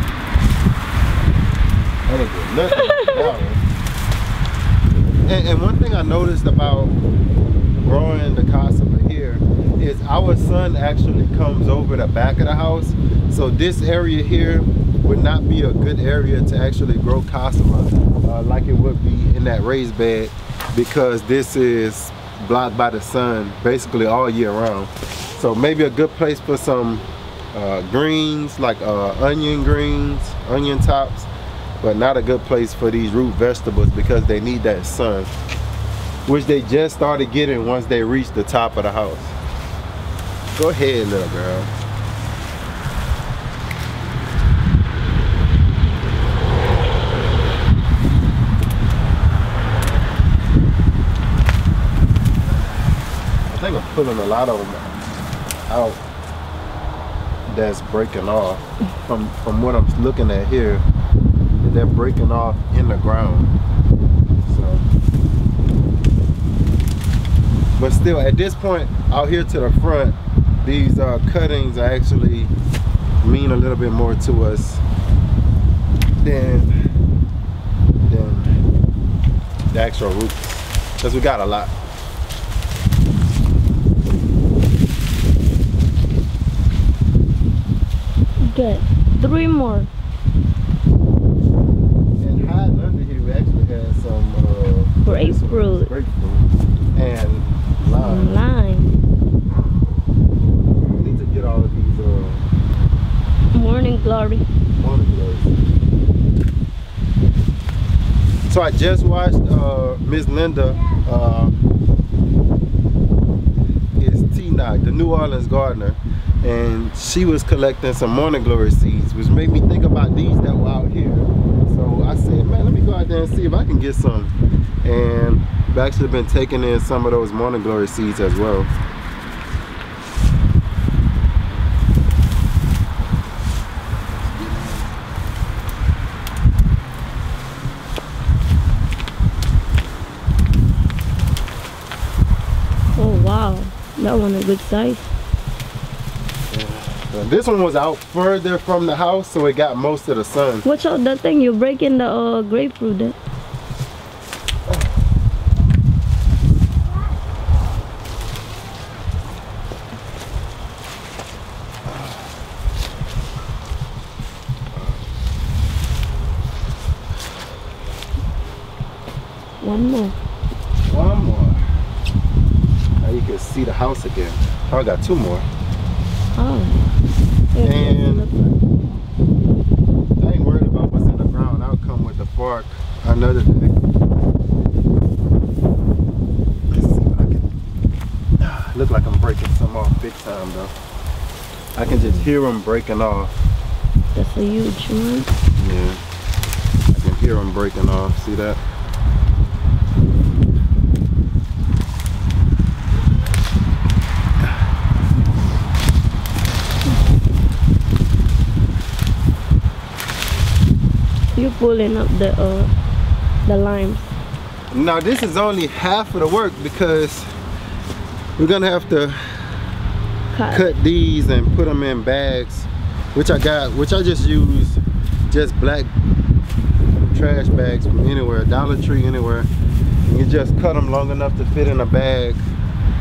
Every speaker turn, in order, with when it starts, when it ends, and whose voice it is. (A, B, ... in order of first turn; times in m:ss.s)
0:02.1-0:03.6 A
0:02.8-0:03.4 B
0:05.2-0:06.9 A
0:07.8-0:31.3 A
0:31.8-0:35.3 A
0:36.3-0:39.4 A
0:40.5-0:41.7 A
0:53.5-0:54.9 A
0:55.7-0:56.0 A
0:57.5-1:00.8 A
1:01.6-1:03.5 A
1:04.4-1:04.8 A
1:07.8-1:12.5 A
1:13.2-1:14.8 A
1:16.2-1:16.7 A
1:18.1-1:18.5 A
1:19.7-1:21.7 A
1:28.5-1:29.9 B
1:32.2-1:36.4 A
1:35.0-1:35.9 B
1:36.9-1:38.4 A
1:38.0-1:38.9 B
1:40.9-1:42.4 A
1:43.5-1:44.4 B
1:44.8-1:45.5 A
1:48.5-1:51.6 A
1:54.0-2:04.3 A
2:04.8-2:08.7 A
2:14.5-2:14.8 A
2:23.0-2:25.0 B
2:26.5-2:30.6 A
2:30.6-2:33.2 B
2:49.6-2:50.2 B
2:50.9-2:51.6 A
2:53.0-2:55.5 A
2:56.4-2:56.8 B
2:57.5-2:58.4 B
2:57.6-2:58.3 A
3:00.2-3:03.7 A
3:06.7-3:07.5 A
3:08.4-3:10.7 A
3:11.7-3:13.3 A
3:14.1-3:15.3 B
3:15.6-3:16.0 A
3:16.9-3:18.6 A
3:31.3-3:32.7 B
3:33.5-3:34.1 B
3:34.7-3:37.3 A
3:38.4-3:39.2 A
3:40.3-3:40.8 B
3:40.5-3:45.9 A
3:47.0-3:49.5 A
3:50.1-3:52.4 A